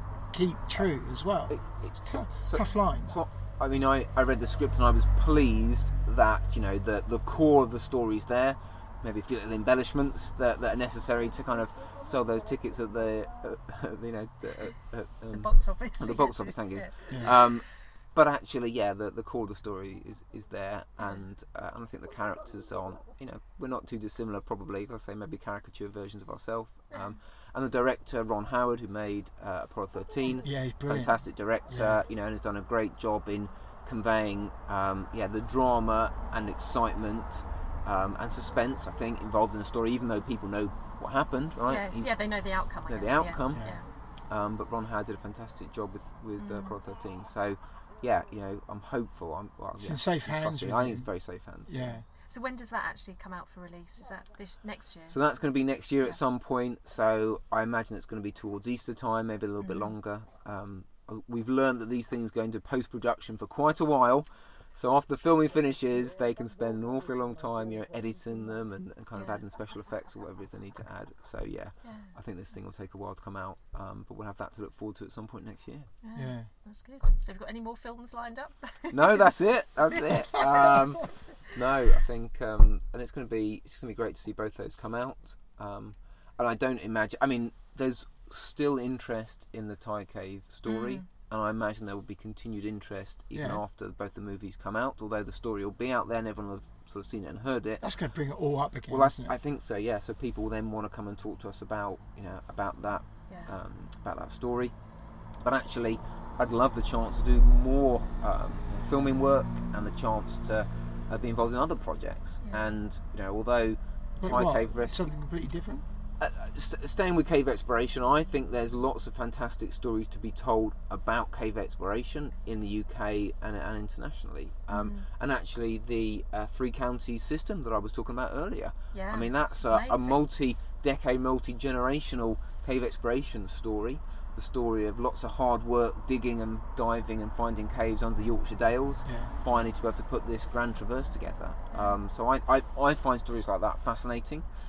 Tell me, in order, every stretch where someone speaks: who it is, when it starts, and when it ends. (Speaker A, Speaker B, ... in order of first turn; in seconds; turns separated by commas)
Speaker A: 0.3-3.2, Speaker B: 1.5-42.2, Speaker C: 15.3-17.6, Speaker C: 21.0-21.2, Speaker A: 30.3-32.0, Speaker C: 41.7-43.9, Speaker B: 42.9-43.7, Speaker A: 43.5-43.8, Speaker B: 44.3-52.0, Speaker C: 46.4-46.8, Speaker A: 49.8-51.1, Speaker A: 51.7-52.0, Speaker C: 52.3-55.2, Speaker B: 55.1-75.9, Speaker C: 59.6-59.9, Speaker C: 69.2-69.4, Speaker C: 71.8-72.1, Speaker C: 76.0-79.3, Speaker A: 76.2-76.5, Speaker B: 78.9-97.9, Speaker C: 90.7-91.0, Speaker A: 93.3-93.6, Speaker A: 97.8-99.3, Speaker B: 98.9-104.8, Speaker B: 105.4-115.1, Speaker C: 112.4-112.7, Speaker A: 114.2-115.8, Speaker B: 116.2-144.4, Speaker C: 124.7-125.1, Speaker C: 128.9-130.2, Speaker A: 139.1-139.3, Speaker C: 141.7-142.0